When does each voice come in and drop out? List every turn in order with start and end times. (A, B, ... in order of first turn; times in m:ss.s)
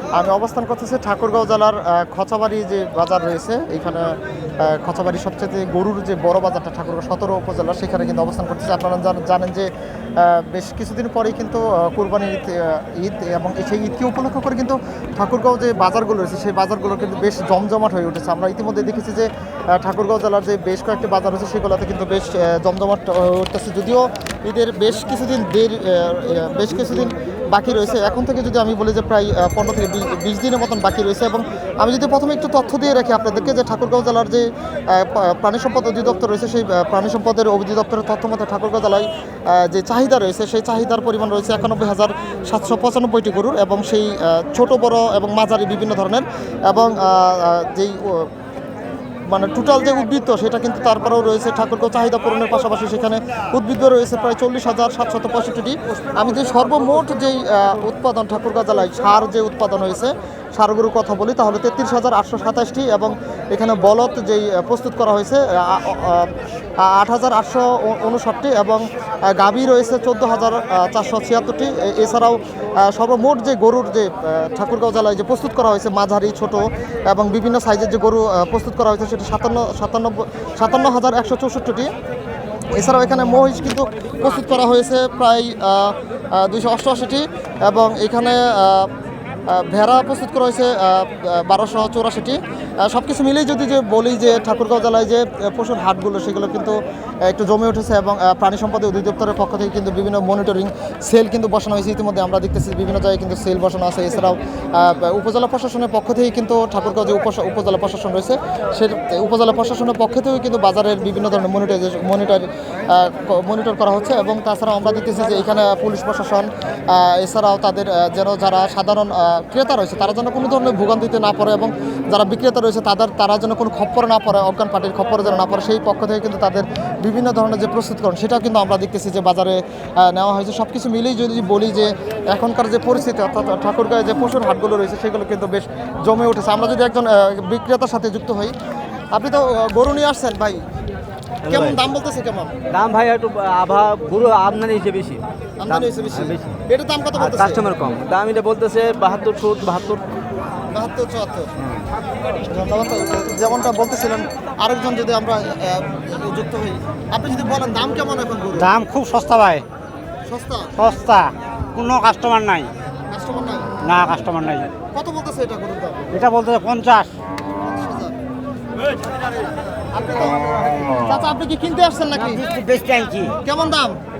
0:00.1-0:48.3 A
0:49.3-1:21.9 A
1:22.7-1:28.9 A
1:29.5-2:18.5 A
2:19.1-2:20.6 A
2:21.5-2:21.8 B
2:21.5-2:22.6 A
2:22.7-2:26.6 B
2:25.6-2:27.7 A
2:27.2-2:30.0 B
2:30.7-2:31.7 A
2:32.4-2:38.7 A
2:38.5-2:39.6 C
2:40.3-2:40.7 A
2:40.8-2:42.7 C
2:43.1-2:43.8 A
2:43.8-2:44.7 C
2:44.9-2:46.1 A
2:46.1-2:47.1 C
2:47.6-2:48.2 A
2:49.9-2:52.5 A
2:52.2-2:53.3 C
2:53.4-2:54.0 A